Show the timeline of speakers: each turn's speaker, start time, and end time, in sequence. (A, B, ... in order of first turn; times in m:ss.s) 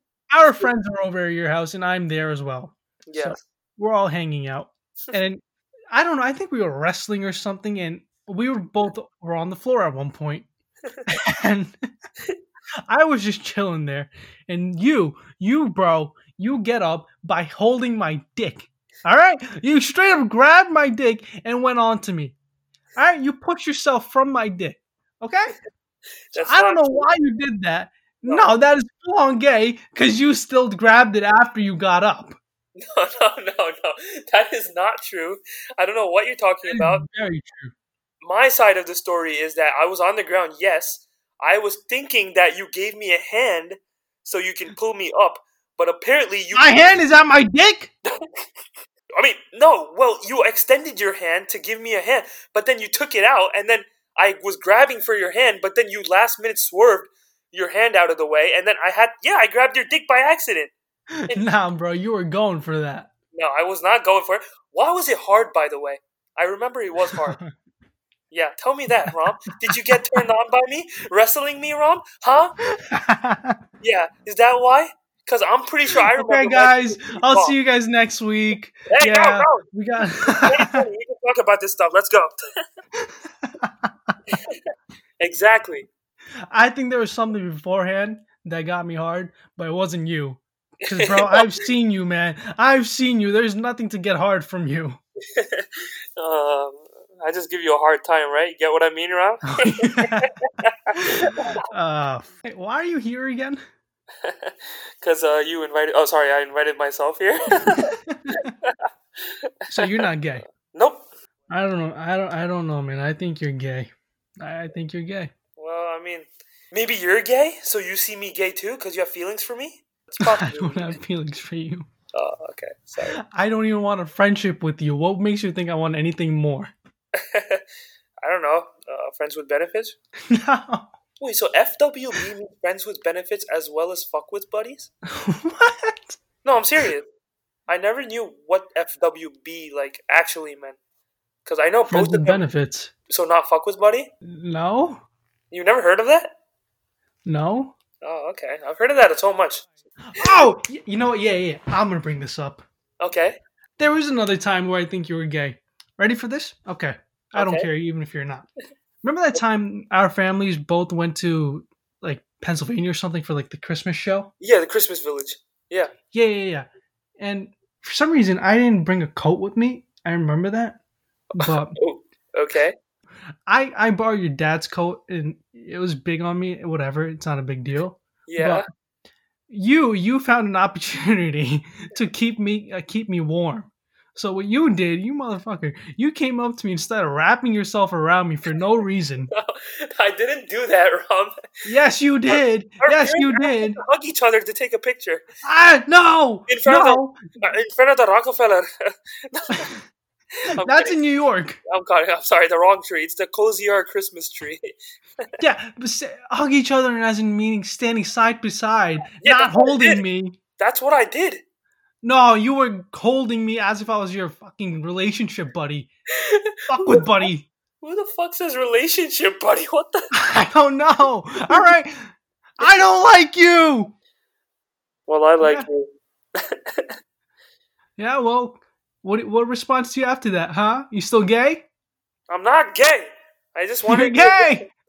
0:00.3-0:10.5 A
0:03.1-0:03.4 B
0:11.1-0:11.8 A
0:12.9-0:22.4 A
0:23.0-0:25.5 A
0:26.3-0:27.1 B
0:26.3-0:32.4 A
0:32.8-0:37.0 B
0:36.7-0:37.7 A
0:38.2-0:47.0 B
0:46.5-0:47.9 A
0:49.2-1:00.7 B
1:01.2-1:03.1 A
1:03.3-1:07.4 B
1:07.1-1:07.5 A
1:08.3-1:12.6 B
1:12.7-1:13.6 A
1:13.8-1:17.6 B
1:16.1-1:20.8 A
1:18.9-1:22.3 B
1:23.0-1:24.1 A
1:24.3-1:24.6 B
1:25.2-1:25.9 B
1:26.5-1:35.0 A
1:30.8-1:31.6 B
1:35.3-1:41.6 B
1:39.5-1:40.3 A
1:40.9-1:43.6 A
1:44.2-1:50.0 B
1:47.7-1:48.5 A
1:49.7-1:50.4 A
1:50.7-1:51.1 B
1:51.5-1:55.3 A
1:55.6-2:01.0 B
2:00.2-2:01.9 A
2:02.1-2:03.2 B
2:03.2-2:06.7 A
2:07.2-2:07.6 B
2:08.2-2:10.0 B
2:10.3-2:10.9 A
2:11.2-2:14.9 B
2:15.1-2:16.2 A
2:16.4-2:17.1 B
2:17.7-2:20.8 B
2:21.4-2:22.4 B
2:21.9-2:22.9 A
2:23.1-2:24.1 B
2:24.2-2:25.0 A
2:25.5-2:26.3 B
2:27.2-2:27.7 A
2:28.0-2:29.7 B
2:30.0-2:32.6 A
2:33.0-2:33.4 B
2:33.8-2:38.5 A
2:37.3-2:37.7 B
2:39.0-2:44.3 A
2:44.4-2:45.9 B
2:46.1-2:46.7 A
2:47.2-2:50.8 A
2:51.3-2:52.8 B
2:51.4-2:51.8 A
2:53.5-2:58.6 A
2:58.3-2:58.6 B
2:59.5-3:09.3 A
3:09.3-3:11.3 B
3:11.6-3:13.8 A
3:12.3-3:15.2 B
3:15.4-3:17.2 A
3:16.5-3:19.7 B
3:20.6-3:21.0 B
3:20.6-3:21.6 A
3:21.7-3:24.7 B
3:25.4-3:30.4 A
3:29.2-3:30.0 B
3:30.6-3:31.4 B
3:32.0-3:35.9 A
3:36.2-3:37.3 B
3:36.7-3:37.5 A
3:37.8-3:40.1 B
3:40.1-3:43.9 A
3:45.1-3:46.9 B
3:45.4-3:45.7 A
3:48.0-3:51.6 A
3:52.3-3:54.6 B
3:53.9-3:54.6 A